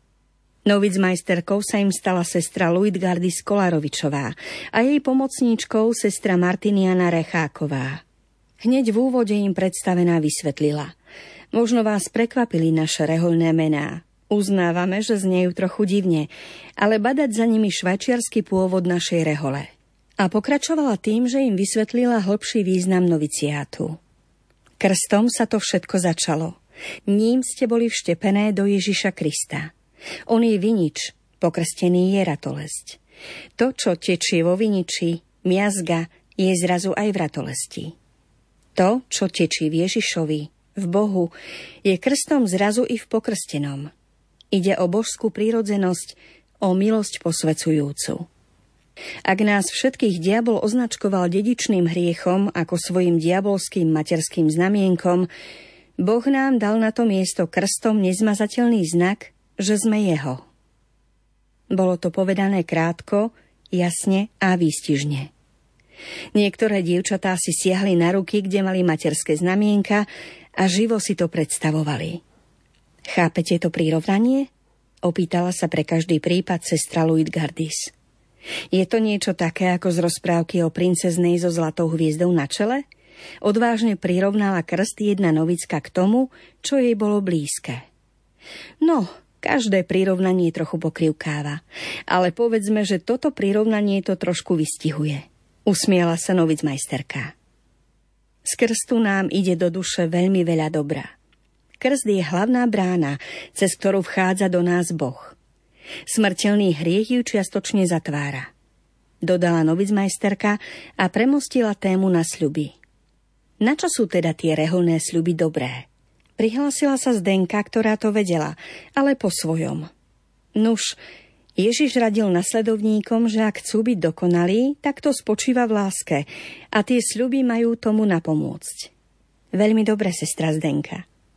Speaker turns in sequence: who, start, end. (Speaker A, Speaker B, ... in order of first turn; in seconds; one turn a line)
Speaker A: 0.7-8.0
Speaker A: 8.6-10.9
Speaker A: 11.5-24.0
Speaker A: 24.8-29.7
Speaker A: 30.3-33.0
Speaker A: 33.6-38.0
Speaker A: 38.8-43.9
Speaker A: 44.5-48.3
Speaker A: 49.3-55.3
Speaker A: 56.0-60.5
Speaker A: 61.7-65.3
Speaker A: 66.3-70.1
Speaker A: 70.6-72.2
Speaker A: 73.1-74.5
Speaker A: 75.0-77.9
Speaker A: 78.7-82.8
Speaker A: 83.4-87.8
Speaker A: 88.8-97.3
Speaker A: 98.4-101.1
Speaker A: 101.8-105.4
Speaker A: 106.1-108.5
Speaker A: 109.2-112.7
Speaker A: 113.6-115.9
Speaker A: 116.4-119.9
Speaker A: 120.5-121.0
Speaker A: 121.6-128.9
Speaker A: 129.5-131.1